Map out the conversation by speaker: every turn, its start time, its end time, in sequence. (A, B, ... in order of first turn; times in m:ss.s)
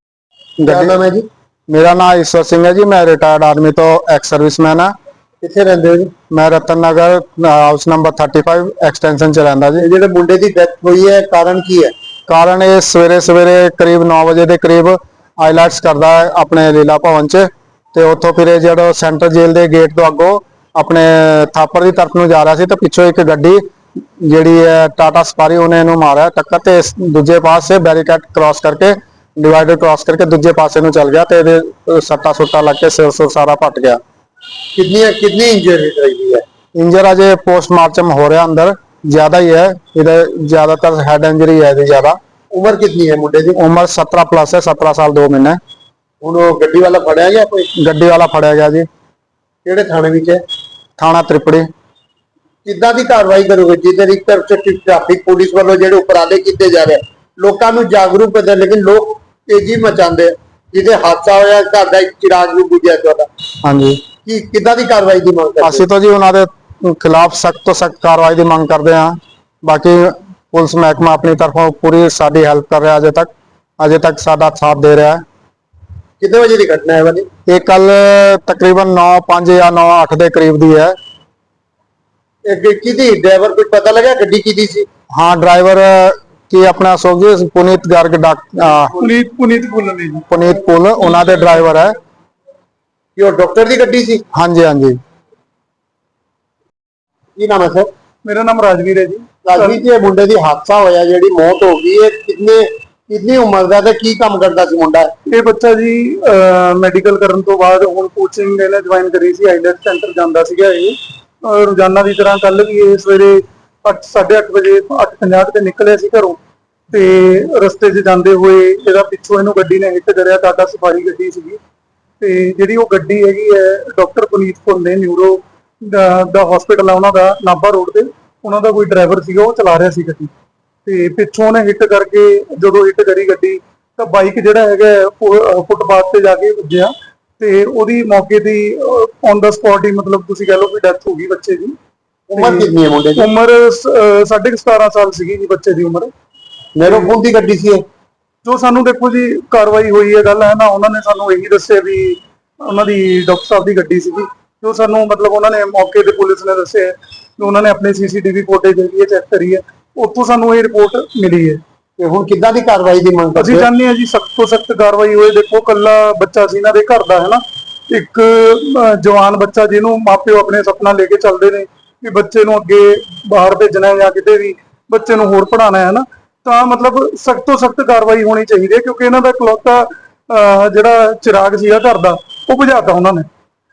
0:00.6-0:01.0 A
0:00.7-0:01.3 B
0:01.7-0:04.9 A
0:05.4-0:06.1 B
0:06.3-0:09.9 A
0:09.8-0:11.9 B
0:12.3-0:23.6 A
0:24.2-0:34.0 A
0:34.8-0:36.4 B
0:36.8-0:42.2 A
0:42.5-0:43.6 B
0:43.6-0:45.6 A
0:46.2-0:47.7 B
0:47.8-0:48.9 A
0:49.6-0:50.4 B
0:51.0-0:51.7 A
0:52.6-1:03.3 B
1:03.6-1:04.1 A
1:04.2-1:05.9 B
1:05.6-1:15.2 A
1:16.2-1:17.3 B
1:17.5-1:21.0 A
1:22.5-1:24.9 B
1:25.2-1:29.0 A
1:29.0-1:30.3 C
1:30.3-1:32.0 A
1:33.2-1:34.2 B
1:34.3-1:35.0 A
1:37.4-1:37.9 B
1:38.2-1:39.8 C
1:39.4-1:45.1 B
1:45.3-1:56.4 C
1:56.9-2:01.6 C
2:02.2-2:10.3 C
2:10.9-2:21.8 C
2:22.3-2:23.3 B
2:22.4-2:26.1 C
2:26.8-2:27.8 B
2:26.8-2:27.1 C
2:28.4-2:41.6 C
2:42.0-2:43.7 B
2:43.4-3:03.3 C